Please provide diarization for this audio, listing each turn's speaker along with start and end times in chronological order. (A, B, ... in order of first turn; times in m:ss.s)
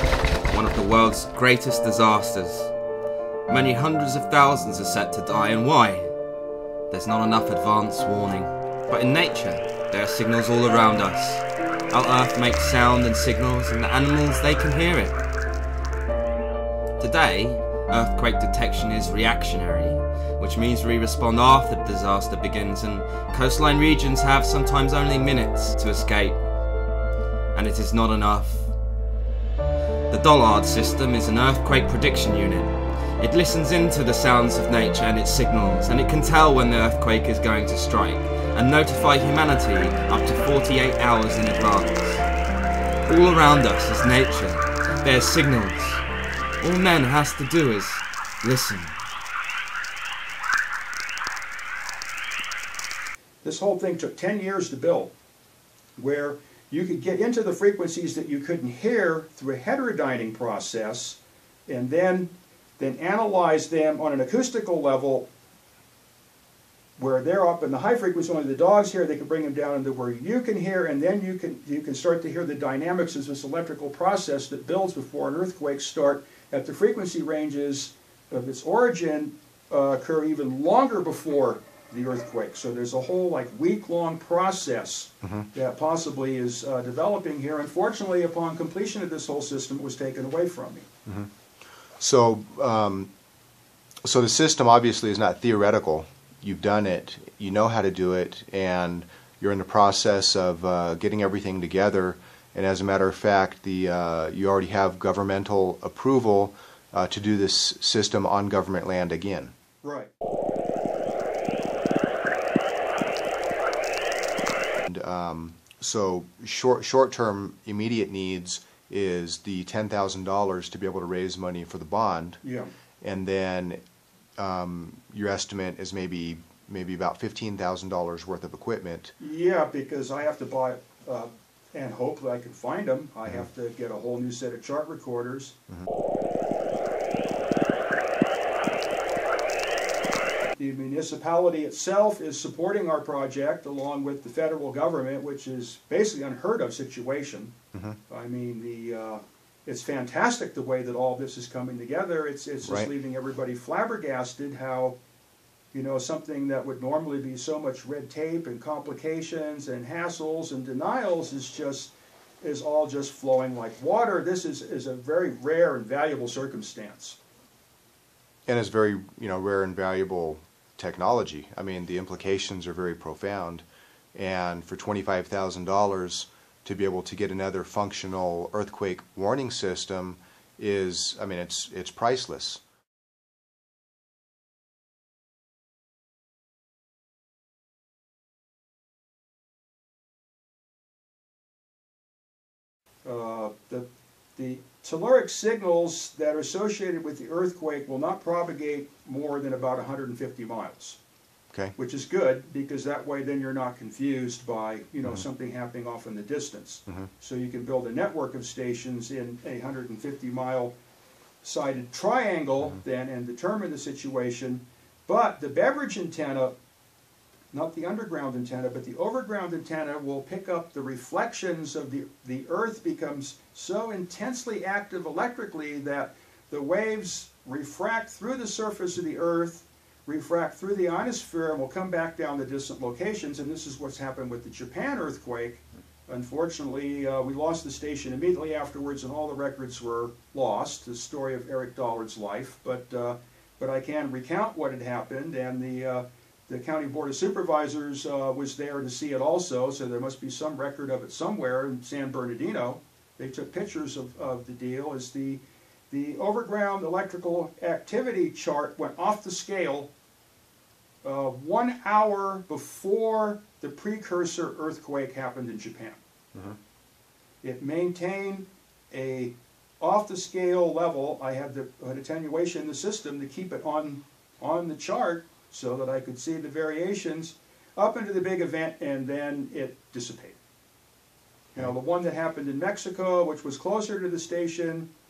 0:00.5-0:02.7 A
0:03.5-0:06.1 A
0:06.9-0:15.2 A
0:17.0-0:26.4 A
0:27.6-0:28.7 A
0:30.1-0:42.2 A
0:43.1-0:46.0 A
0:46.6-0:49.0 A
0:53.4-0:55.1 B
0:56.0-1:05.3 B
1:07.0-1:30.9 B
1:25.2-1:25.5 C
1:32.0-1:33.1 C
1:34.0-1:49.5 C
1:49.8-1:50.1 B
1:54.9-2:02.4 C
2:02.4-2:02.7 B
2:03.0-2:03.8 C
2:04.4-2:09.2 C
2:09.2-2:15.6 B
2:20.6-2:27.5 B
2:28.1-2:35.0 B
2:32.6-2:32.9 C
2:35.7-2:47.2 B
2:48.5-3:02.6 C
3:13.0-3:21.0 B
3:21.8-3:30.8 B
3:31.4-3:36.6 B
3:37.5-4:19.9 B
4:21.0-4:26.0 B
4:27.4-4:40.4 B
4:41.5-4:44.9 B